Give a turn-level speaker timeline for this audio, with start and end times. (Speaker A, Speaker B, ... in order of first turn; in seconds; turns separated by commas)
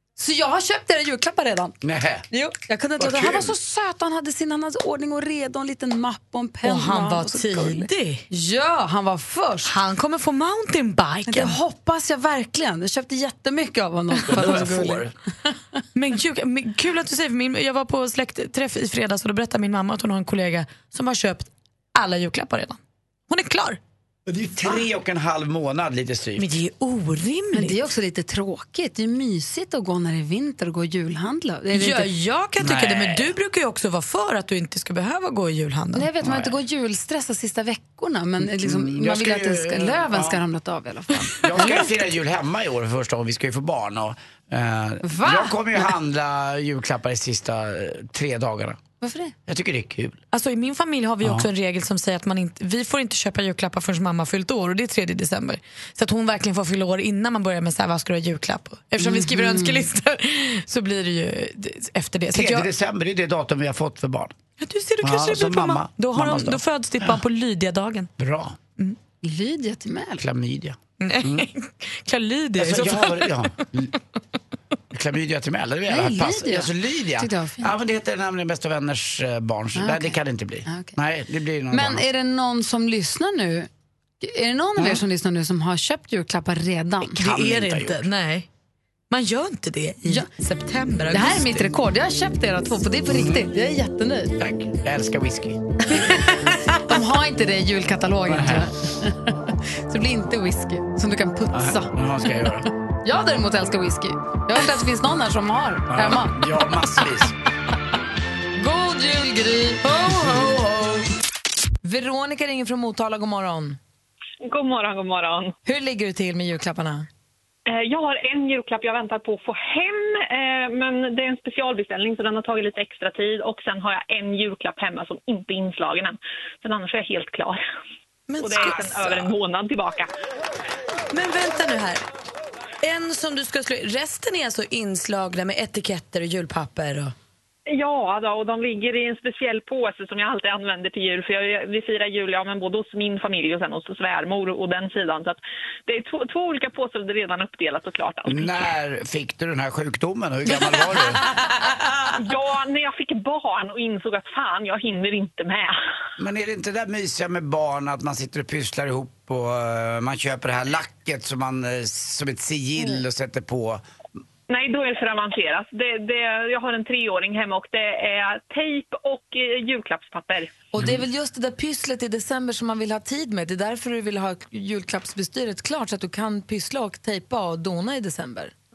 Speaker A: 0.2-1.8, Speaker B: 1.8-2.2, Speaker A: 2.3-9.7, Speaker B: 3.0-3.5, Speaker C: 6.6-8.2, Speaker C: 9.7-11.6, Speaker A: 11.3-15.5, Speaker B: 14.2-15.1, Speaker C: 15.9-23.8, Speaker B: 24.3-26.5, Speaker C: 26.4-27.8, Speaker A: 27.5-32.1, Speaker C: 31.7-36.1, Speaker B: 32.6-33.3, Speaker A: 35.9-41.8, Speaker B: 36.2-36.5, Speaker B: 38.4-40.4, Speaker B: 41.1-48.8, Speaker A: 45.0-45.8, Speaker A: 49.0-49.3, Speaker B: 49.5-50.2, Speaker C: 50.3-62.7, Speaker B: 51.2-51.5, Speaker A: 59.0-59.9, Speaker B: 62.3-64.3, Speaker C: 64.6-68.1, Speaker B: 65.0-66.6, Speaker B: 68.2-68.6, Speaker A: 69.2-70.2, Speaker B: 70.2-71.5, Speaker C: 71.0-73.5, Speaker B: 72.6-73.9, Speaker B: 74.9-82.0, Speaker A: 75.9-77.7, Speaker A: 79.7-81.0, Speaker A: 81.7-83.7, Speaker A: 84.2-87.1, Speaker B: 84.8-85.0, Speaker B: 87.0-88.0, Speaker C: 87.2-88.5, Speaker C: 89.1-91.7, Speaker A: 91.1-94.3, Speaker B: 93.1-93.5, Speaker B: 94.4-95.9, Speaker A: 95.9-101.9, Speaker B: 98.3-98.7, Speaker B: 101.5-102.7, Speaker A: 103.0-106.4, Speaker B: 105.9-107.3, Speaker A: 108.5-111.0, Speaker A: 111.8-113.8, Speaker D: 114.4-115.5, Speaker A: 115.6-117.1, Speaker D: 117.7-127.6, Speaker C: 128.3-129.3, Speaker D: 128.4-130.1, Speaker C: 131.1-132.0, Speaker C: 132.8-137.1, Speaker D: 137.7-148.6, Speaker B: 148.2-151.2, Speaker C: 151.6-152.1, Speaker D: 152.2-155.8, Speaker B: 156.2-163.8, Speaker D: 164.5-170.5, Speaker A: 170.7-178.5